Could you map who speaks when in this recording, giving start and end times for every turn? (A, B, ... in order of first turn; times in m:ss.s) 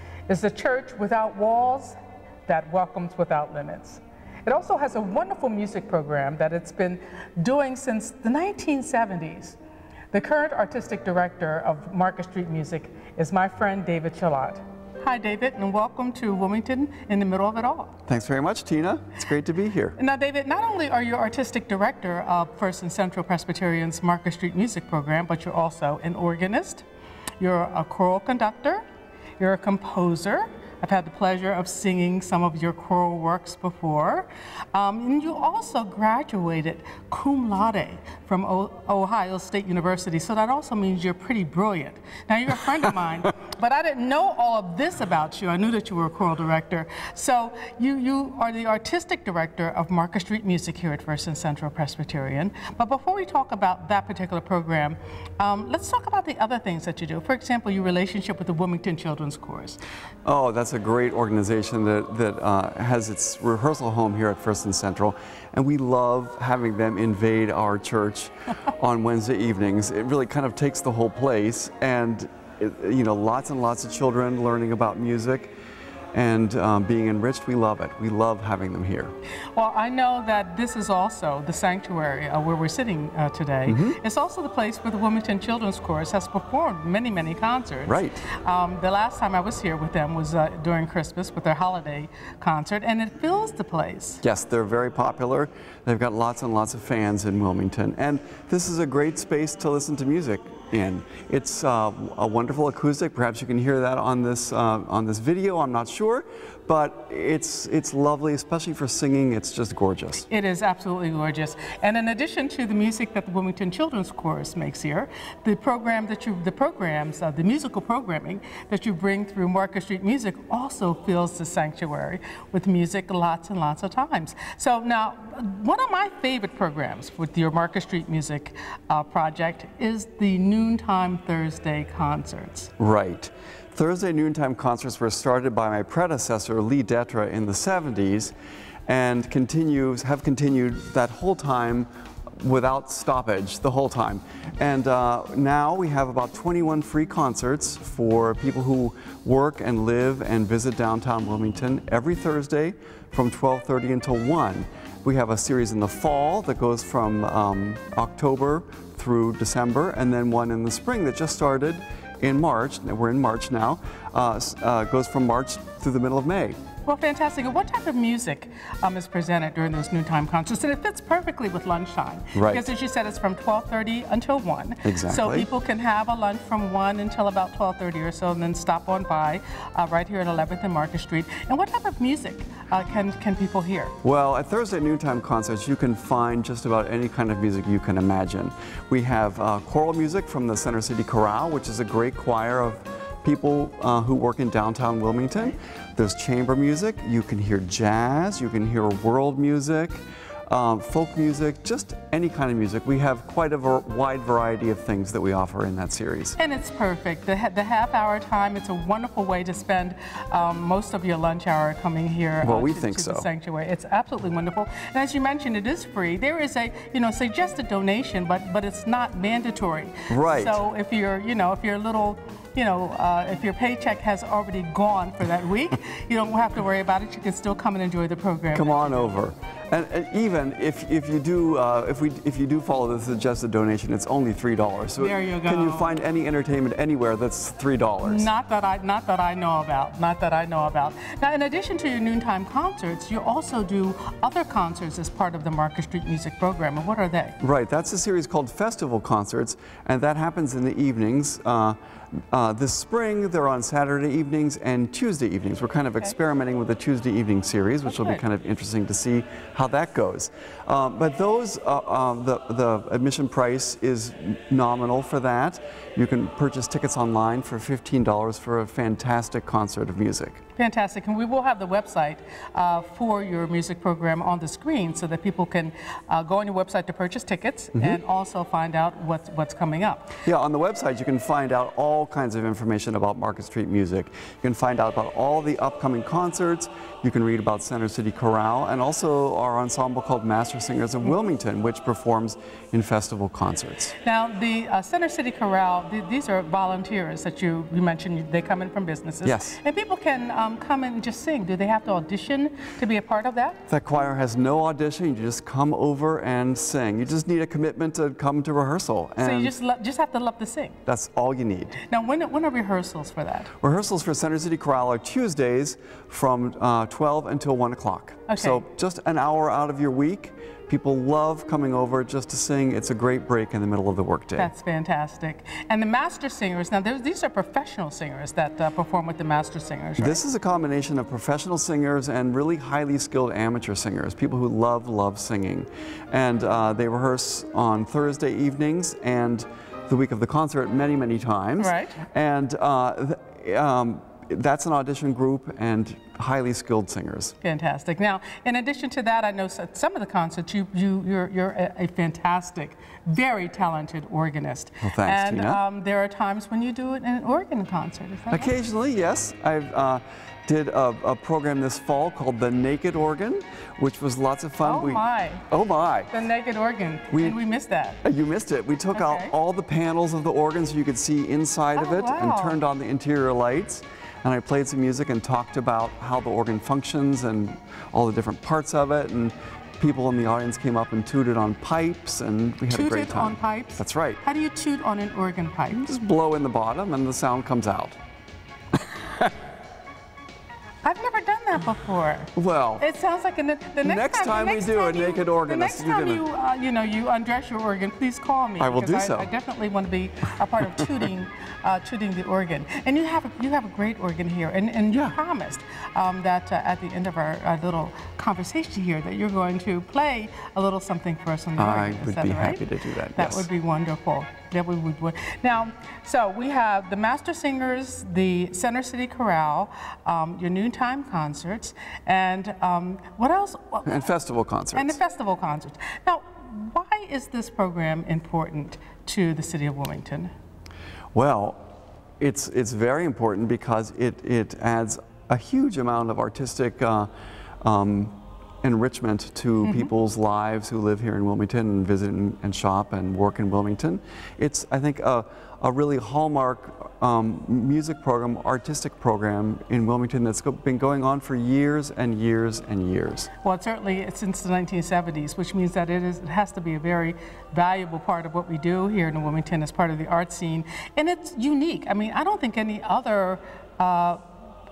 0:00.3-0:09.6 A
0:10.1-0:18.0 A
0:18.1-0:20.0 B
0:20.0-0:26.8 A
0:27.4-0:28.8 A
0:29.4-0:59.8 A
1:00.2-1:15.5 B
1:16.1-1:19.1 B
1:19.6-1:34.2 A
1:23.7-1:24.0 B
1:27.9-1:28.2 B
1:34.2-1:50.3 B
1:50.3-2:12.7 A
2:12.8-2:18.3 B
2:18.9-2:46.6 B
2:46.8-3:03.9 A
2:52.4-2:52.6 B
2:54.8-2:55.5 B
3:04.0-3:26.4 B
3:26.4-3:49.1 A
3:32.4-3:33.3 B
3:40.1-3:40.6 B
3:48.5-3:58.3 B
3:55.0-3:56.0 A
3:58.0-4:07.4 A
4:07.4-4:11.8 B
4:12.3-4:30.4 B
4:17.9-4:18.2 A
4:30.6-4:40.2 A
4:40.2-4:53.9 B
4:54.0-5:03.6 A
4:59.2-4:59.6 B
5:03.7-5:09.5 B
5:09.2-5:10.8 A
5:10.9-5:11.8 B
5:11.8-5:13.5 A
5:13.6-5:24.5 B
5:18.3-5:18.6 A
5:24.4-5:30.2 A
5:30.0-5:47.3 B
5:41.6-5:42.0 A
5:47.4-5:58.5 A
5:54.8-5:55.6 B
5:58.3-6:06.1 B
6:04.6-6:05.5 A
6:06.1-6:08.0 A
6:07.1-6:07.4 B
6:08.0-6:24.2 B
6:08.9-6:09.3 A
6:11.8-6:12.6 A
6:22.7-6:25.9 A
6:25.7-6:28.0 B
6:28.9-6:29.3 B
6:30.8-7:04.1 A
6:32.4-6:32.8 B
6:33.8-6:36.2 B
6:38.6-6:39.3 B
6:51.6-6:53.5 B
7:03.9-7:05.0 B
7:04.7-7:10.3 A
7:11.1-7:11.6 B
7:12.2-7:17.1 B
7:17.6-7:33.3 B
7:19.6-7:19.9 A
7:33.4-7:44.2 A